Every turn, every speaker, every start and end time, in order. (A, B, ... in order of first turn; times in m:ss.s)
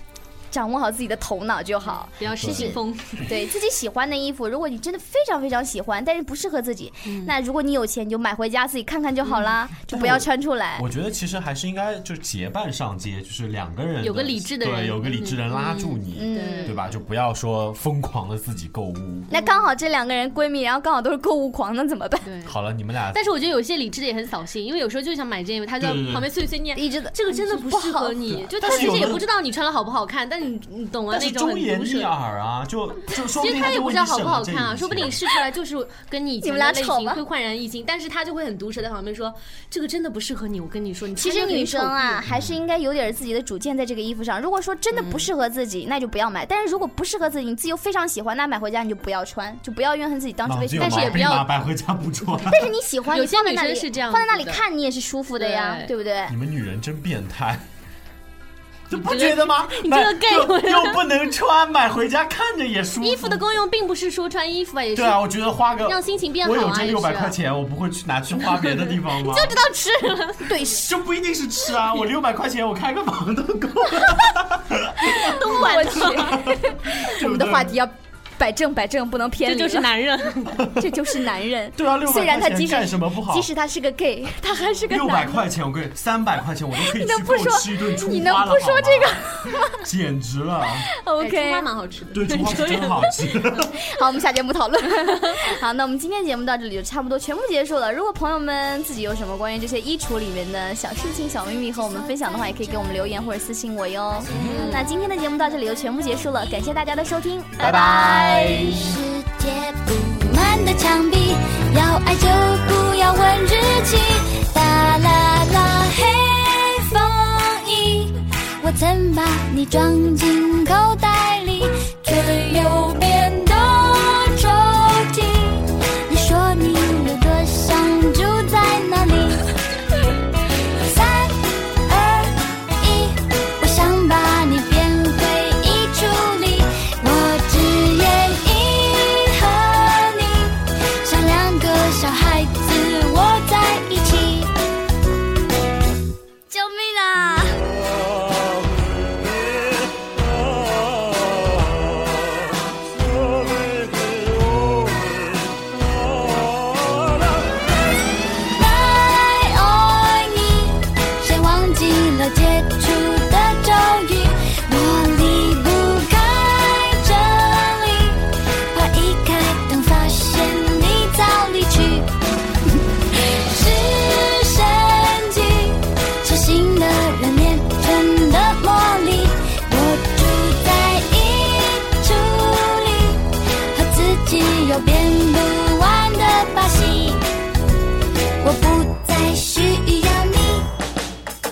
0:00.5-0:10.9 A
0:02.2-0:03.4 B
0:02.3-0:02.8 C
0:07.0-0:07.3 B
0:09.2-0:09.5 B
0:09.9-0:19.3 C
0:14.0-0:16.8 B
0:16.1-0:16.8 A
0:19.3-0:22.3 A
0:19.3-0:19.7 B
0:22.2-0:22.6 B
0:22.4-0:23.3 C
0:23.1-0:32.1 B
0:25.8-0:26.3 C
0:26.8-0:29.0 A
0:28.3-0:29.2 C
0:31.1-0:35.2 C
0:33.4-0:42.2 B
0:36.4-0:37.2 A
0:41.2-0:51.3 A
0:42.3-0:42.6 C
0:44.9-0:45.3 B
0:50.4-0:52.7 C
0:50.8-0:51.5 B
0:52.4-0:56.4 A
0:53.1-0:54.6 B
0:55.4-0:55.9 B
0:56.3-0:57.7 C
0:58.9-1:03.4 C
0:59.0-1:01.1 B
1:03.0-1:07.4 B
1:04.9-1:09.6 C
1:08.4-1:10.6 B
1:10.5-1:10.8 A
1:10.5-1:17.8 C
1:15.0-1:16.5 B
1:15.2-1:20.1 A
1:19.4-1:20.7 B
1:20.6-1:25.5 A
1:21.8-1:23.5 C
1:24.6-1:24.9 B
1:24.9-1:30.9 C
1:26.8-1:29.8 A
1:30.9-1:31.7 A
1:31.2-1:33.4 B
1:32.1-1:33.8 C
1:33.6-1:48.7 A
1:35.1-1:35.4 B
1:44.3-1:44.7 C
1:44.3-1:44.9 B
1:47.6-1:48.9 C
1:47.6-2:09.4 D
2:10.8-2:24.5 D
2:26.5-2:27.6 A
2:38.5-2:52.1 D
2:52.7-3:07.2 D
3:08.4-3:10.7 D